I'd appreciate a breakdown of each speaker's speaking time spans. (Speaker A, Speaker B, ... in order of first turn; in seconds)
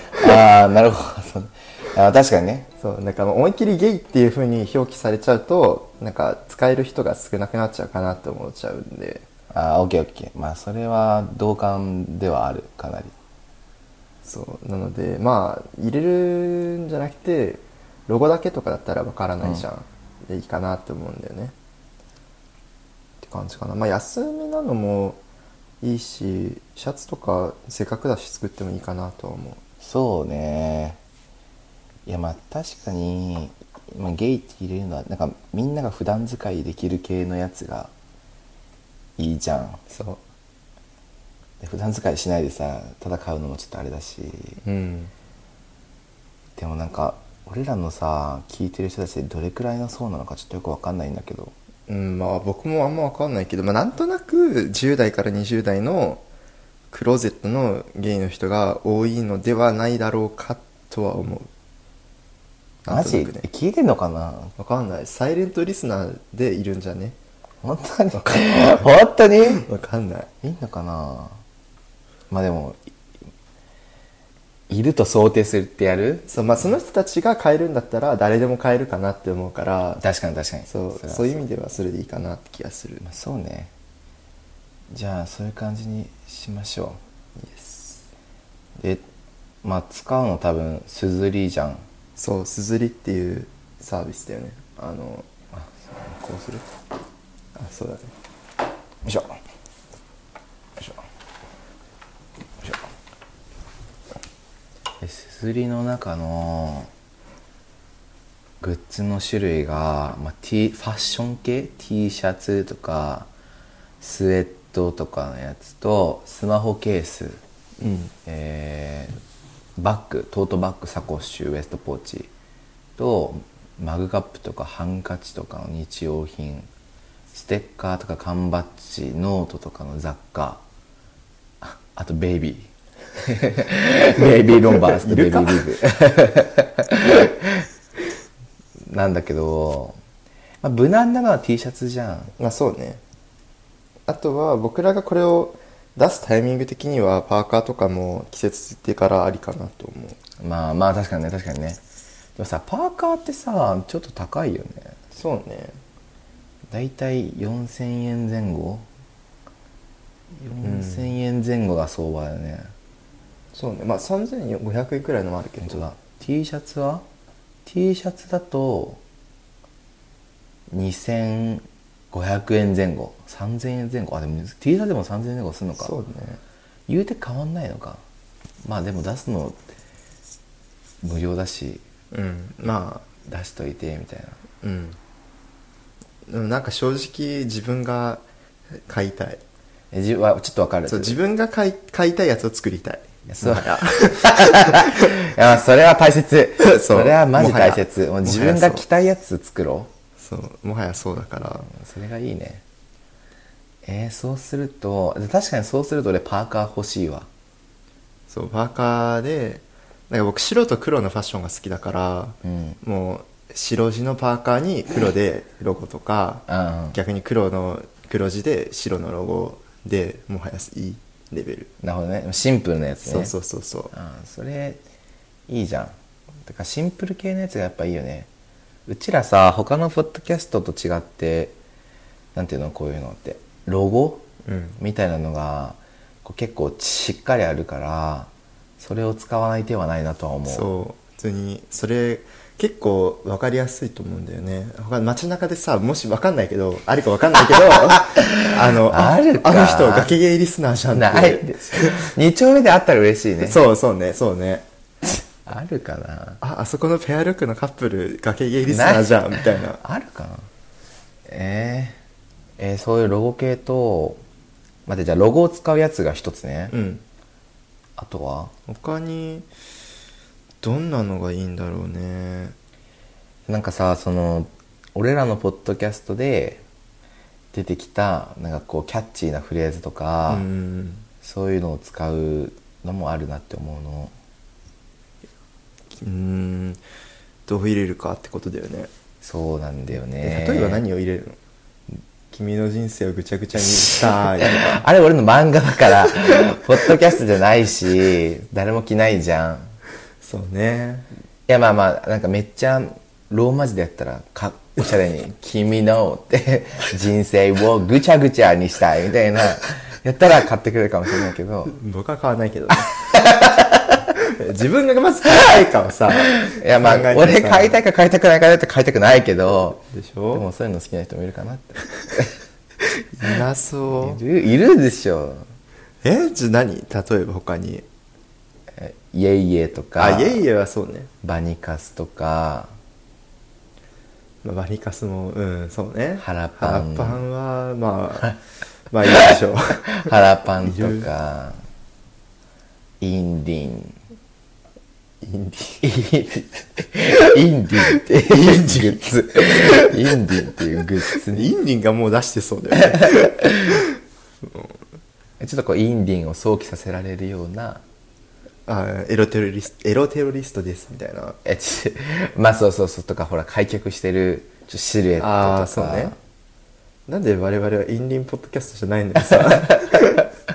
Speaker A: 0.1-2.7, 9.5-13.1, 29.8-31.0, 32.1-37.9, 39.2-39.8, 41.6-44.6, 46.6-51.5, 62.9-64.5, 67.6-69.7, 70.4-71.4, 72.3-72.8, 74.7-76.3, 80.0-81.3, 83.0-83.7, 84.9-87.0, 88.8-89.0, 89.6-91.8, 95.5-96.6, 99.0-99.4, 105.0-106.9, 108.6-113.3, 114.0-117.4, 118.3-119.2, 119.8-122.3, 123.0-126.7, 127.3-130.6, 131.6-132.7, 133.2-137.7, 138.9-140.0, 140.6-142.3, 150.4-151.8, 152.4-155.0, 156.7-158.9, 160.4-162.7, 165.6-167.1, 167.7-169.0, 170.7-175.9, 176.9-178.0, 178.6-179.6, 181.0-181.8, 183.2-184.4, 189.9-191.2, 193.3-199.9, 201.7-202.6, 203.8-207.3, 212.4-212.8, 216.5-217.0, 221.8-223.3, 223.9-224.8, 225.5-225.9, 226.4-228.3, 228.9-231.6, 232.3-234.3, 234.8-240.7, 248.1-250.2, 250.9-253.6, 255.4-256.4, 258.7-260.5, 261.3-262.0, 262.6-264.2, 264.9-266.7, 268.0-268.5, 273.5-276.6, 277.5-280.5, 281.2-284.1, 289.2-290.8, 293.9-299.7, 301.5-311.8, 313.1-314.0, 316.3-319.8, 320.3-322.3, 324.0-325.5, 328.8-330.5, 331.2-332.7, 336.2-337.2, 340.0-341.6, 343.0-344.0, 345.8-351.5, 353.1-353.8, 355.4-357.8, 361.4-366.2
Speaker B: 2.8-9.3, 14.2-21.6, 23.2-25.2, 25.8-29.6, 39.9-40.2, 44.6-45.1, 51.9-56.2, 56.9-61.5, 62.9-63.5, 64.6-67.2, 68.1-68.9, 69.6-70.3, 76.3-80.0, 80.7-83.1, 87.4-88.1, 92.2-95.3, 97.6-98.1, 117.8-118.1, 134.2-135.6, 142.4-143.0, 144.1-150.2, 155.1-155.8, 160.6-161.2, 163.5-165.9, 175.8-176.4, 182.1-183.1, 184.6-185.0, 186.3-188.2, 188.8-189.4, 190.9-195.2, 196.6-198.9, 200.2-201.7, 208.3-221.7, 223.0-223.9, 234.4-234.8, 240.5-252.1, 253.4-254.7, 256.4-259.8, 266.7-267.0, 268.7-269.5, 270.6-272.6, 280.3-281.1, 286.0-286.8, 287.5-288.9, 290.2-291.4, 292.3-294.8, 300.2-301.1, 311.7-313.1, 314.2-317.8, 319.8-320.5, 323.1-324.2, 326.0-327.9, 330.0-331.1, 334.4-338.4, 338.9-341.1, 345.2-345.9, 348.3-349.9, 351.1-353.9, 354.5-354.8, 358.7-361.4, 365.2-366.1, 367.1-370.3